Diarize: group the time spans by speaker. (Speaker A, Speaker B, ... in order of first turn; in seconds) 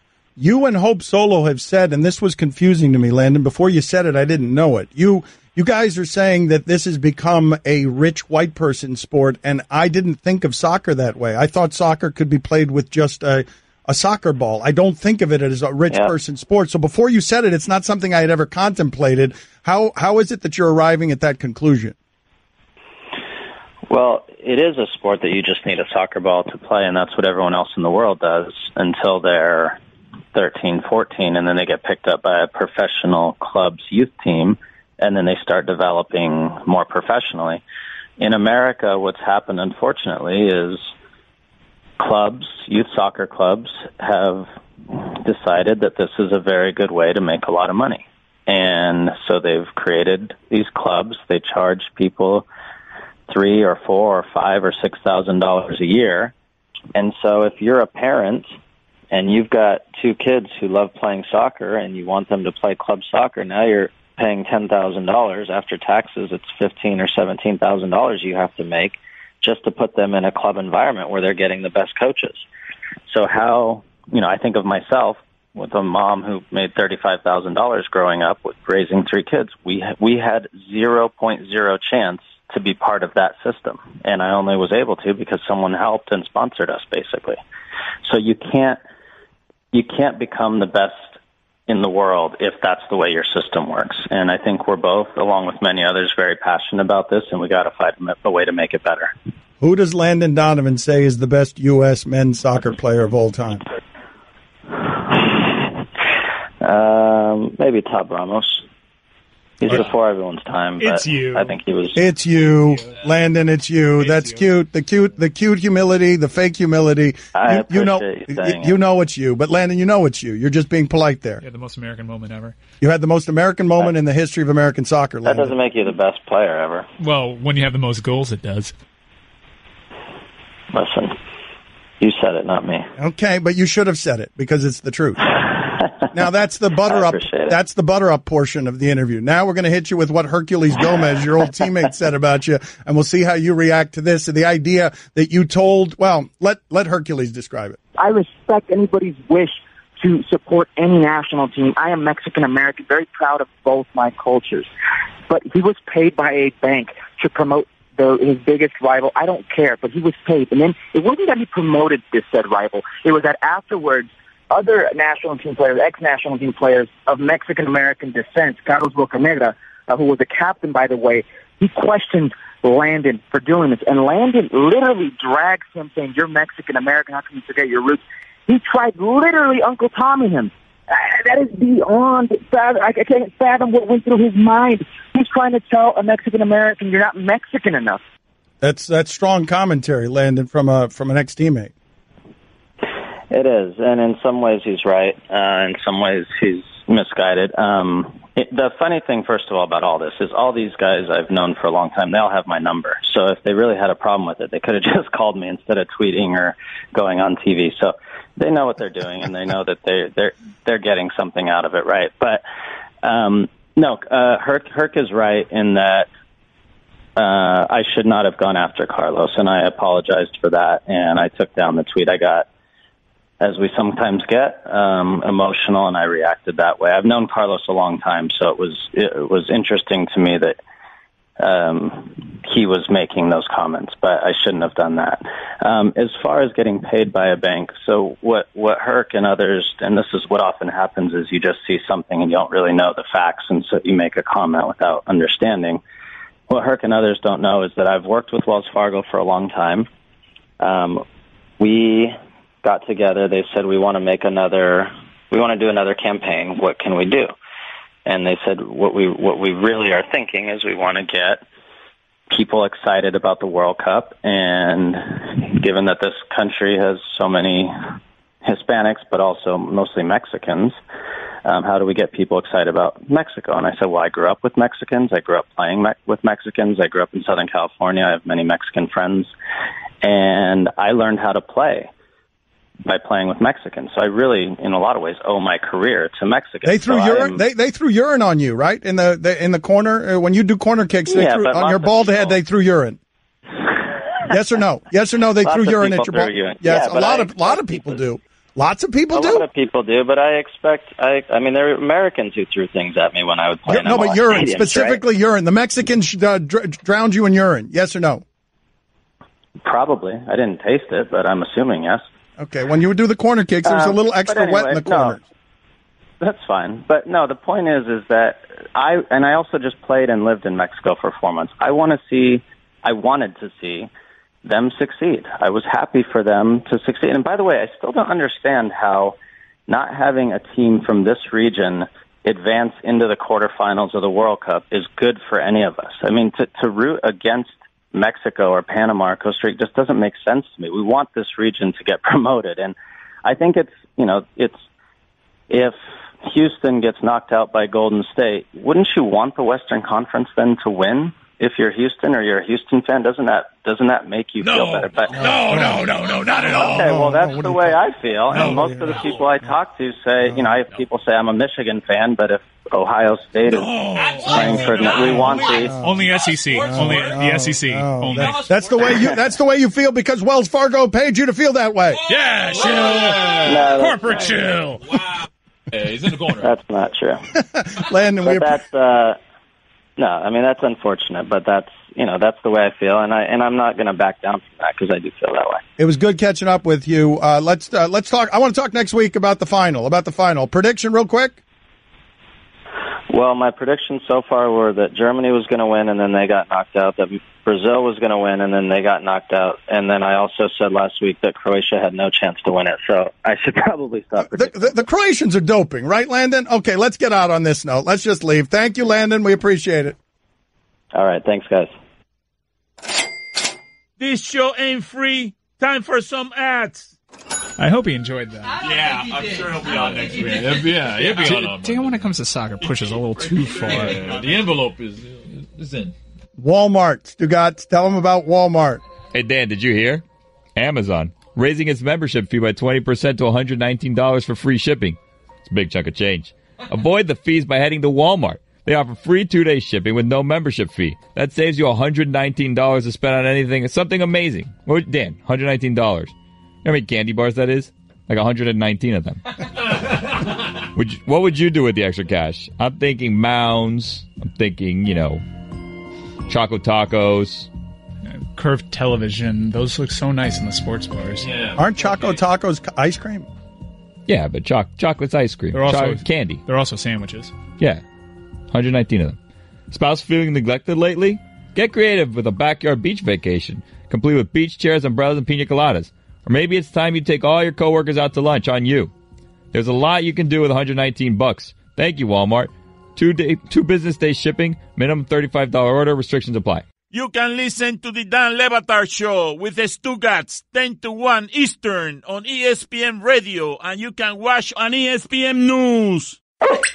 Speaker A: 0.4-21.9, 99.6-103.6, 111.9-121.4, 122.8-125.5, 133.0-135.2, 136.1-147.8, 188.6-191.7, 286.6-293.0, 294.3-299.4, 303.7-308.2, 312.4-315.2, 355.3-357.7, 358.3-358.9, 365.5-372.0, 377.3-378.6, 385.8-391.4, 404.2-409.9, 426.4-428.8, 461.6-463.3
Speaker B: 23.9-29.8, 30.3-37.6, 38.2-40.9, 42.0-52.5, 53.3-56.3, 56.9-58.5, 59.1-72.4, 73.1-87.4, 88.0-88.8, 89.7-91.1, 91.7-99.1, 106.6-108.6, 109.6-112.0, 117.3-118.7, 125.2-126.9, 130.7-131.1, 132.0-132.9, 136.8-137.5, 193.3-212.4, 213.0-216.1, 217.2-222.5, 223.4-230.6, 231.4-245.8, 246.5-249.9, 250.6-251.0, 251.6-257.3, 258.1-261.4, 262.3-267.7, 268.4-270.8, 271.4-279.3, 280.0-281.9, 282.9-287.4, 291.1-292.4, 295.4-298.0, 299.1-305.0, 309.6-312.0, 313.6-315.2, 316.2-323.9, 324.4-329.1, 329.7-344.6, 345.5-355.3, 356.5-365.7, 373.4-374.2, 376.4-377.2, 378.2-379.2, 380.0-385.6, 393.1-404.7, 410.9-411.7
Speaker C: 110.8-111.5, 112.7-113.0, 114.0-114.5, 121.4-122.6, 127.0-128.7, 354.4-357.0, 358.3-358.6, 363.5-369.1, 372.1-374.8, 417.6-424.1, 458.0-461.3, 465.5-467.3
Speaker D: 148.0-154.7, 155.3-188.0
Speaker E: 363.9-367.3, 368.1-369.1, 372.1-375.2, 375.7-376.6, 418.6-422.1, 423.4-425.9, 461.2-462.2
Speaker F: 414.0-416.9, 486.9-496.2
Speaker G: 429.1-430.0, 430.6-446.1, 446.6-449.3, 450.7-455.2, 456.3-457.5, 464.1-466.4, 468.5-469.2, 469.7-478.9, 479.5-486.6